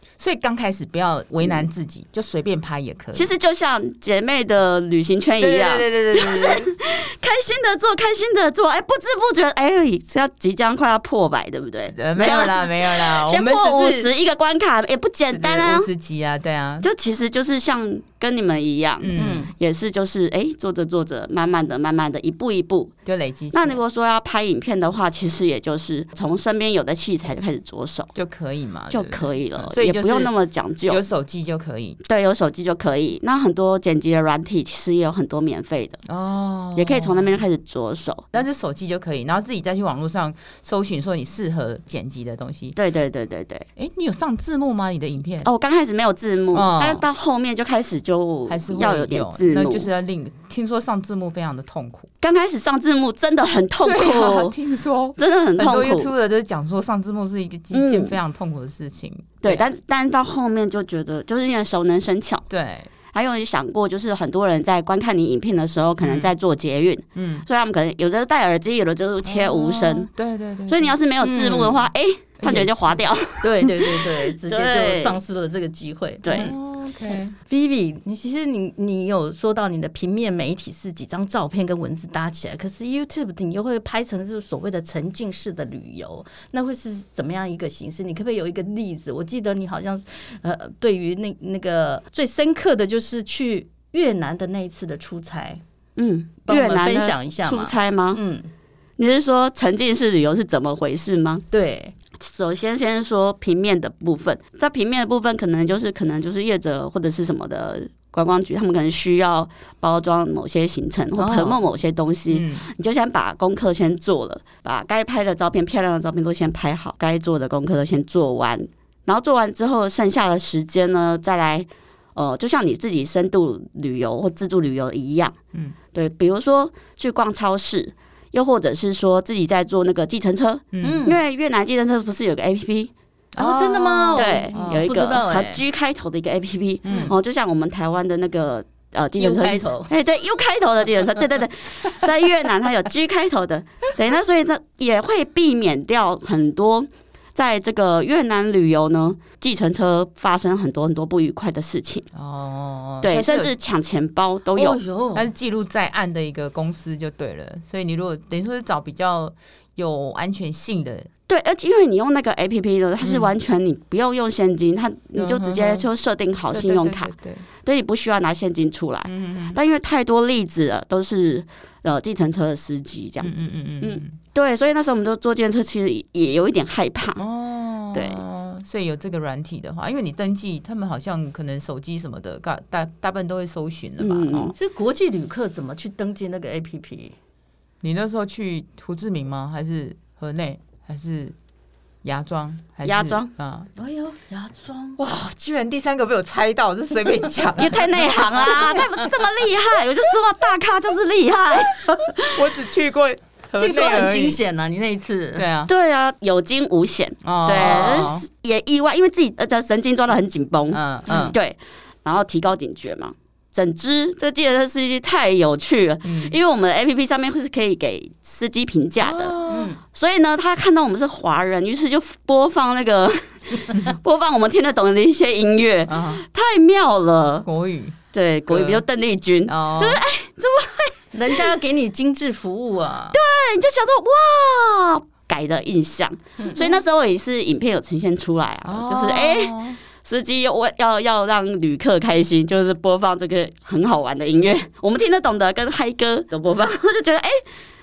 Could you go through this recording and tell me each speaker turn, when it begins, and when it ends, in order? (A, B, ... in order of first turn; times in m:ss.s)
0:00.2-0:03.3 A
0:03.1-0:15.9 B
0:05.4-0:06.7 A
0:11.9-0:14.1 A
0:15.3-0:16.9 A
0:16.8-0:22.9 B
0:19.0-0:19.5 A
0:19.2-0:19.5 C
0:23.0-0:23.8 A
0:23.5-0:28.1 B
0:28.1-0:30.3 A
0:28.9-0:31.0 B
0:30.9-0:32.0 A
0:32.0-0:36.0 B
0:36.0-0:37.4 A
0:36.8-0:38.3 B
0:38.3-0:42.8 A
0:42.8-0:43.6 B
0:43.8-0:45.5 A
0:45.4-0:49.9 B
0:46.5-0:47.0 A
0:48.5-0:52.1 A
0:52.2-0:54.5 B
0:53.8-0:59.7 A
0:55.2-0:56.1 B
0:57.7-0:58.2 B
0:59.4-1:02.4 B
1:02.5-1:02.9 A
1:03.1-1:10.1 B
1:06.0-1:06.3 A
1:07.1-1:07.4 A
1:09.2-1:11.0 A
1:10.7-1:15.2 B
1:11.2-1:11.8 C
1:12.4-1:13.0 A
1:13.4-1:16.6 C
1:16.2-1:16.5 B
1:16.3-1:17.4 A
1:17.4-1:35.6 C
1:36.0-1:38.2 B
1:36.4-1:38.5 C
1:39.0-1:41.4 B
1:41.5-1:41.9 C
1:42.2-2:05.4 B
1:51.2-1:51.6 C
1:52.3-1:52.6 A
2:05.9-2:12.9 B
2:10.7-2:11.0 A
2:10.8-2:11.2 C
2:13.3-2:14.9 A
2:13.4-2:15.6 C
2:14.1-2:32.1 B
2:16.8-2:17.1 A
2:19.2-2:19.9 C
2:32.1-2:33.5 A
2:33.0-2:34.8 B
2:34.5-2:35.3 C
2:35.1-2:41.1 A
2:41.3-2:47.1 B
2:43.0-2:43.3 A
2:45.2-2:45.9 A
2:46.5-2:47.4 A
2:47.6-2:57.2 B
2:49.0-2:49.6 A
2:53.2-2:54.1 A
2:57.2-3:04.5 A
2:57.9-2:58.2 B
3:04.0-3:04.5 B
3:04.6-3:07.1 C
3:07.8-3:11.3 A
3:12.0-3:13.7 A
3:12.8-3:13.3 B
3:13.8-3:15.0 C
3:15.0-3:19.0 A
3:17.6-3:22.5 B
3:22.3-3:24.4 A
3:23.6-3:25.5 C
3:25.4-3:25.7 A
3:25.7-3:39.4 B
3:27.2-3:28.2 A
3:30.7-3:31.4 A
3:31.1-3:31.3 C
3:36.0-3:36.4 A
3:39.0-3:39.8 A
3:39.5-3:39.8 C
3:39.9-3:47.5 B
3:45.9-3:46.2 A
3:47.4-3:48.0 A
3:48.1-3:51.4 B
3:48.5-3:48.8 A
3:49.5-3:50.0 A
3:51.1-3:53.1 C
3:53.1-4:07.4 B
3:58.6-3:59.8 A